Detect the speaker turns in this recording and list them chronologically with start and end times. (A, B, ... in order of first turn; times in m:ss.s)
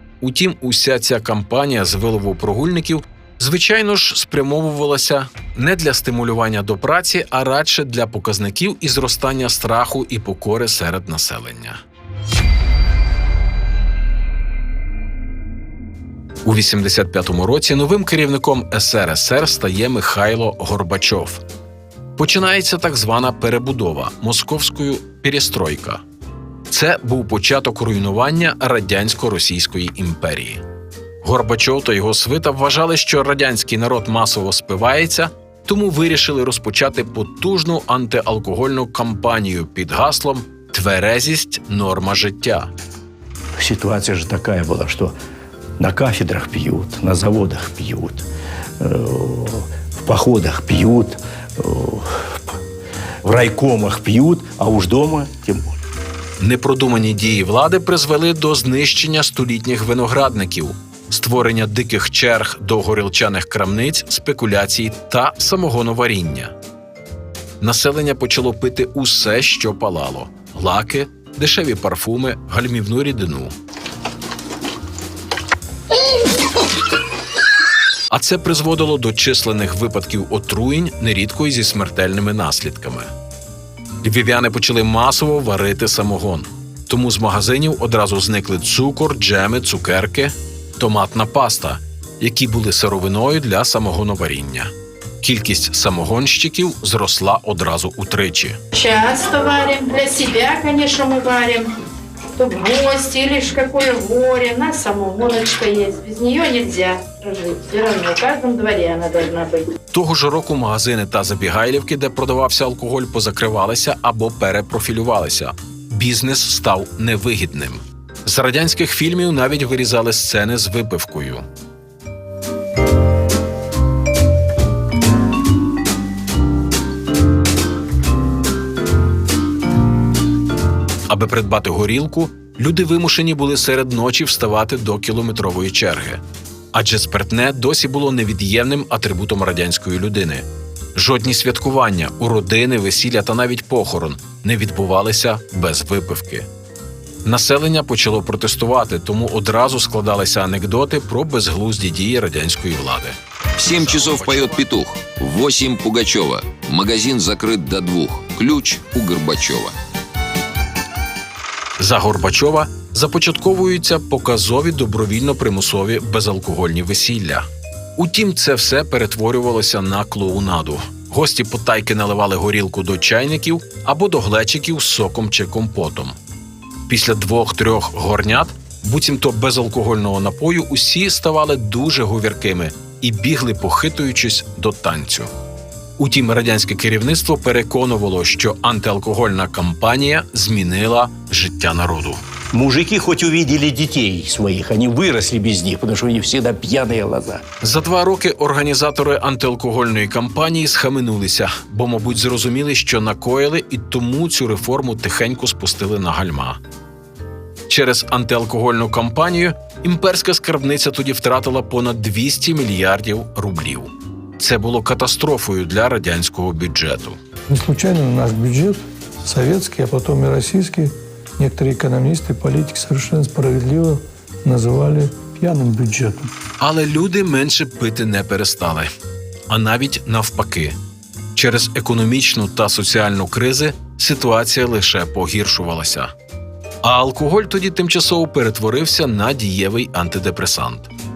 0:00.2-0:11.8 A
0:16.4-0:21.4 A
0:22.2-0:26.0 A
0:26.7-0:30.6 A
0:31.2-0:42.7 A
0:43.6-0:45.1 B
0:45.8-0:48.2 B
0:48.8-0:52.5 B
0:53.2-0:55.8 B
0:56.4-1:06.5 A
1:07.6-1:13.5 A
1:18.1-1:23.1 A
1:24.0-1:38.6 A
1:38.8-1:41.8 C
1:42.4-1:49.7 C
1:49.9-2:01.4 A
2:11.1-2:26.5 A
2:27.2-2:33.2 A
2:33.6-2:39.8 D
2:33.7-2:34.7 A
2:41.8-2:56.2 A
2:56.9-3:05.3 A
3:06.0-3:12.2 A
3:12.5-3:17.4 B
3:17.6-3:26.6 A
3:27.7-3:37.2 A
3:37.5-3:46.3 E
3:46.6-3:48.9 A
3:49.5-3:50.8 A
3:51.4-3:56.1 A
3:56.8-4:00.9 A